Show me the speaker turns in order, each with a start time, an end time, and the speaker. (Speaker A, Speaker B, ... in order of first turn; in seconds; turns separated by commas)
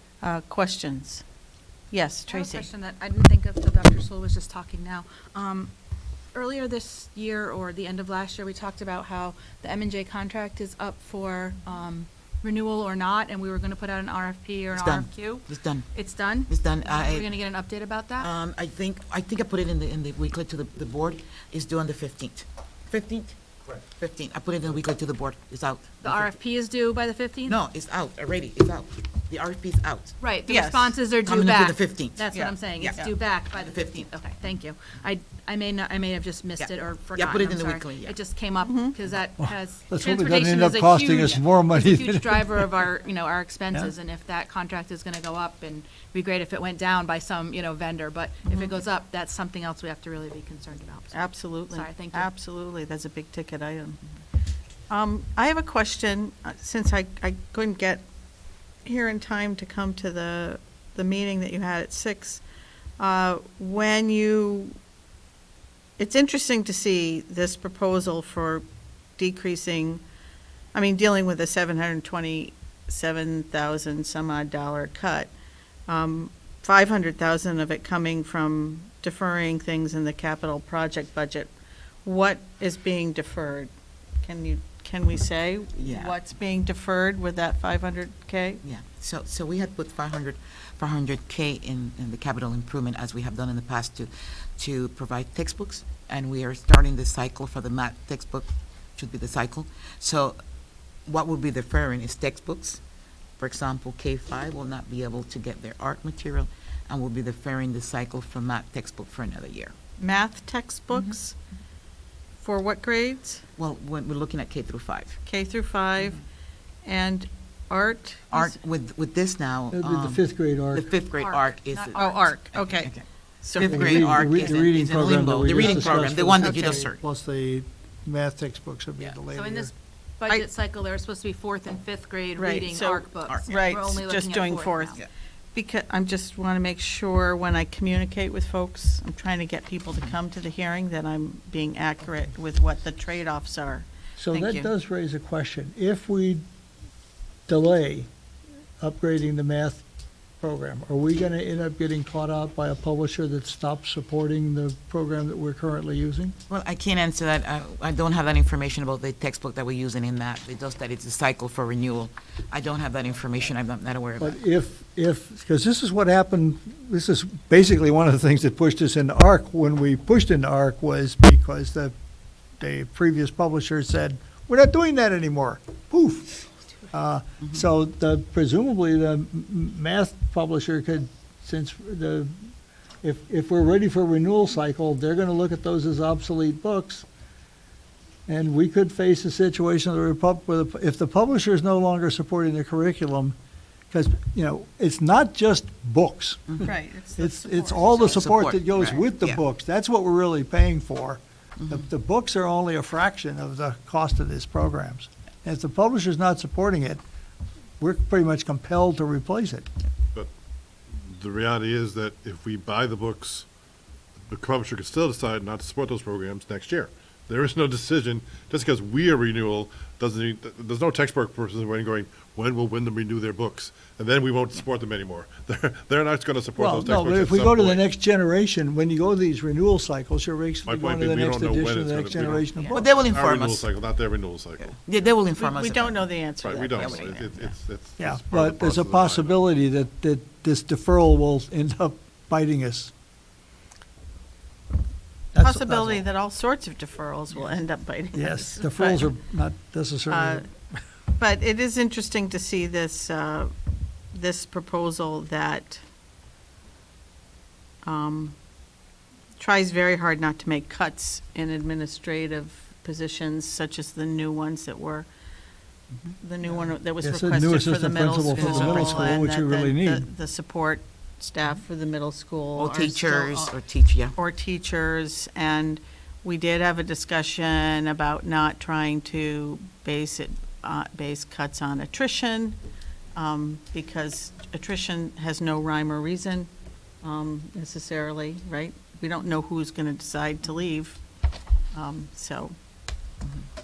Speaker A: 0.2-1.2, Speaker A: 1.9-2.7, Speaker B: 2.3-5.7, Speaker B: 6.3-18.3, Speaker C: 14.7-15.9, Speaker C: 16.5-17.3, Speaker C: 18.2-26.4, Speaker B: 26.0-27.6, Speaker C: 27.5-30.1, Speaker B: 30.2-52.3, Speaker A: 30.5-30.9, Speaker C: 31.2-32.2, Speaker A: 32.3-33.1, Speaker C: 32.8-34.1, Speaker C: 36.6-38.1, Speaker A: 38.6-38.9, Speaker D: 39.4-42.7, Speaker A: 51.1-54.0, Speaker A: 54.9-58.0, Speaker A: 58.8-62.4, Speaker A: 63.0-64.8, Speaker A: 66.0-68.6, Speaker A: 69.2-70.0, Speaker A: 70.7-75.3, Speaker A: 75.9-81.5, Speaker A: 82.0-83.7, Speaker A: 84.2-88.6, Speaker C: 85.8-86.2, Speaker C: 88.6-100.3, Speaker C: 101.0-102.8, Speaker C: 103.4-109.7, Speaker A: 110.0-111.3, Speaker A: 112.4-113.4, Speaker C: 113.6-115.2, Speaker A: 115.2-116.2, Speaker A: 116.8-118.5, Speaker C: 118.3-123.0, Speaker D: 119.7-120.9, Speaker B: 121.1-122.3, Speaker A: 121.9-124.2, Speaker C: 123.5-127.0, Speaker D: 123.6-129.7, Speaker A: 125.6-126.8, Speaker B: 129.3-135.0, Speaker A: 132.4-135.0, Speaker A: 135.5-144.7, Speaker D: 144.2-146.4, Speaker D: 147.5-148.1, Speaker D: 148.8-149.8, Speaker D: 150.4-156.3, Speaker C: 156.5-164.4, Speaker D: 164.2-171.9, Speaker D: 172.6-182.4, Speaker D: 183.0-187.0, Speaker D: 188.3-193.3, Speaker D: 193.9-207.0, Speaker A: 196.6-198.4, Speaker C: 198.1-199.4, Speaker D: 207.8-209.7, Speaker E: 211.0-213.4, Speaker E: 214.3-227.8, Speaker D: 226.6-232.9, Speaker E: 230.6-234.8, Speaker C: 232.7-233.7, Speaker C: 234.6-237.5, Speaker A: 235.4-237.3, Speaker E: 236.4-239.4, Speaker D: 238.0-242.9, Speaker D: 245.3-246.1, Speaker A: 245.4-249.1, Speaker D: 248.1-250.5, Speaker A: 250.1-250.4, Speaker A: 251.2-253.5, Speaker A: 254.1-255.8, Speaker A: 257.8-258.4, Speaker A: 259.4-265.1, Speaker A: 266.2-273.5, Speaker D: 267.0-270.1, Speaker C: 268.3-269.1, Speaker C: 272.6-274.1, Speaker A: 274.1-282.6, Speaker A: 283.1-286.5, Speaker A: 287.0-291.0, Speaker A: 291.7-292.5